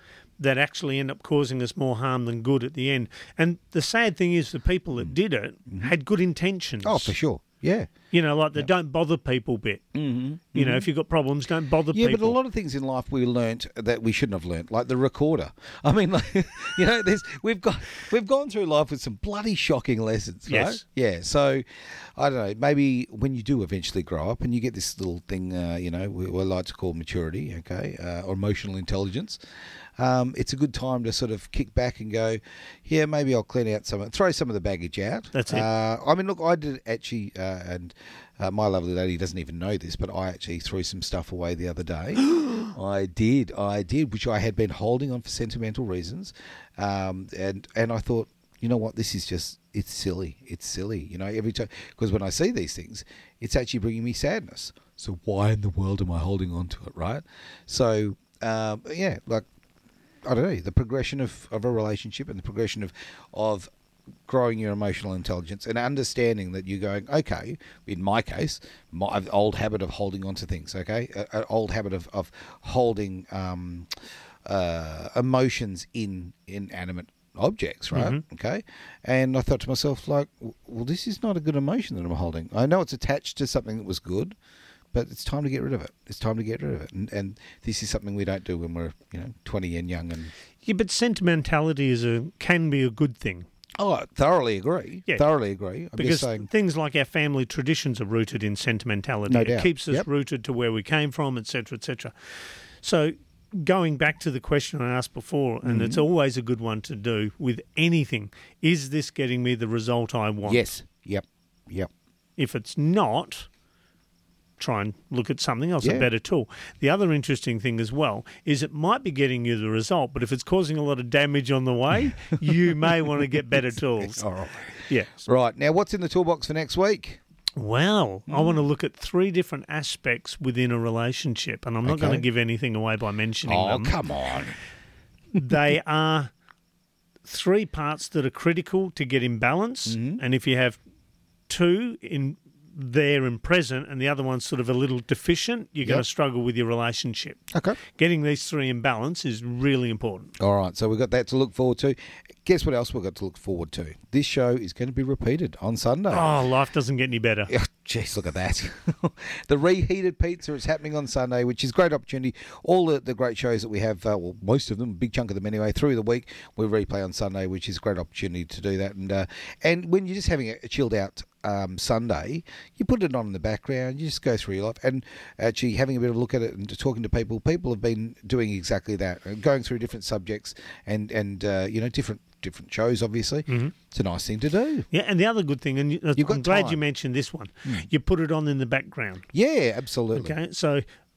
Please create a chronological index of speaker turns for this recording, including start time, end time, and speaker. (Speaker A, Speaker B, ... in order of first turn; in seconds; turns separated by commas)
Speaker A: 0.4-7.2, Speaker B: 6.8-7.9, Speaker A: 8.1-9.8, Speaker B: 9.9-10.9, Speaker A: 10.5-12.4, Speaker B: 11.9-29.4, Speaker A: 20.5-20.8, Speaker B: 30.0-59.5, Speaker A: 35.3-35.7, Speaker B: 60.2-63.7, Speaker B: 64.3-84.4, Speaker A: 77.9-78.2, Speaker B: 84.9-90.3, Speaker A: 90.6-93.5, Speaker B: 93.8-96.5, Speaker A: 96.0-102.1, Speaker B: 99.3-100.1, Speaker A: 102.8-110.7, Speaker B: 105.6-106.0, Speaker B: 110.5-111.9, Speaker A: 112.4-113.5, Speaker A: 114.6-124.2, Speaker B: 115.8-116.1, Speaker B: 124.0-127.2, Speaker A: 124.8-125.2, Speaker A: 127.6-133.9, Speaker B: 128.3-128.6, Speaker B: 131.8-132.2, Speaker B: 133.5-134.6, Speaker A: 135.3-136.3, Speaker A: 137.3-140.8, Speaker B: 139.9-140.2, Speaker A: 141.5-147.4, Speaker B: 147.5-147.8, Speaker A: 147.9-150.3, Speaker B: 150.4-156.3, Speaker A: 156.1-157.5, Speaker B: 157.5-184.9, Speaker A: 183.5-183.7, Speaker A: 184.9-189.3, Speaker B: 186.2-186.8, Speaker B: 189.3-190.3, Speaker A: 190.1-190.8